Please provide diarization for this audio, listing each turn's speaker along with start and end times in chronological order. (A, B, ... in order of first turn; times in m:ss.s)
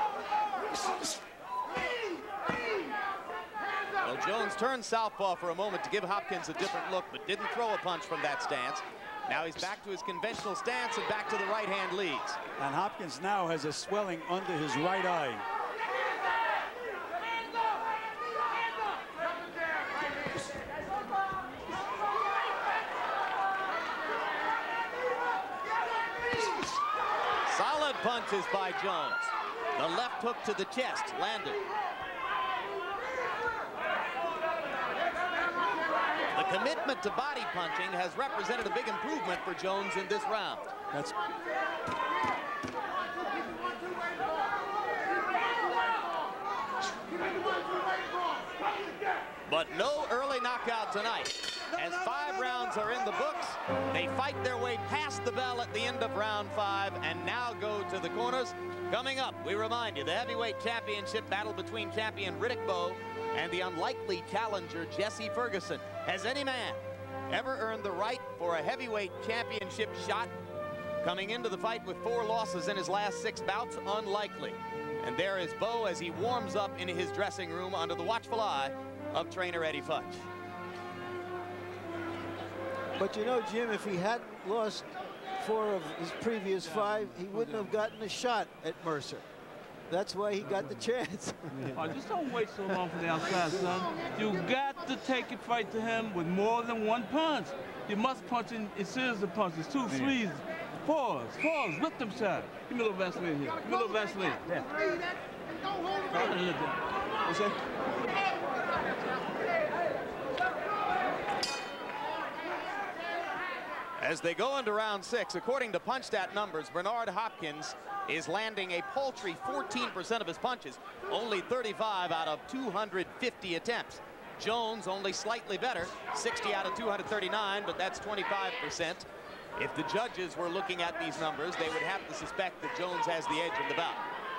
0:04.0-0:12.4 A
0:12.6-0:15.4 B
0:27.4-0:31.6 A
0:36.3-0:40.7 A
0:49.5-1:10.3 A
1:11.0-1:20.3 A
1:23.0-1:29.2 C
1:26.7-1:27.6 D
1:29.9-1:32.0 C
1:31.7-1:44.6 D
1:46.1-1:47.5 D
1:54.0-2:14.0 A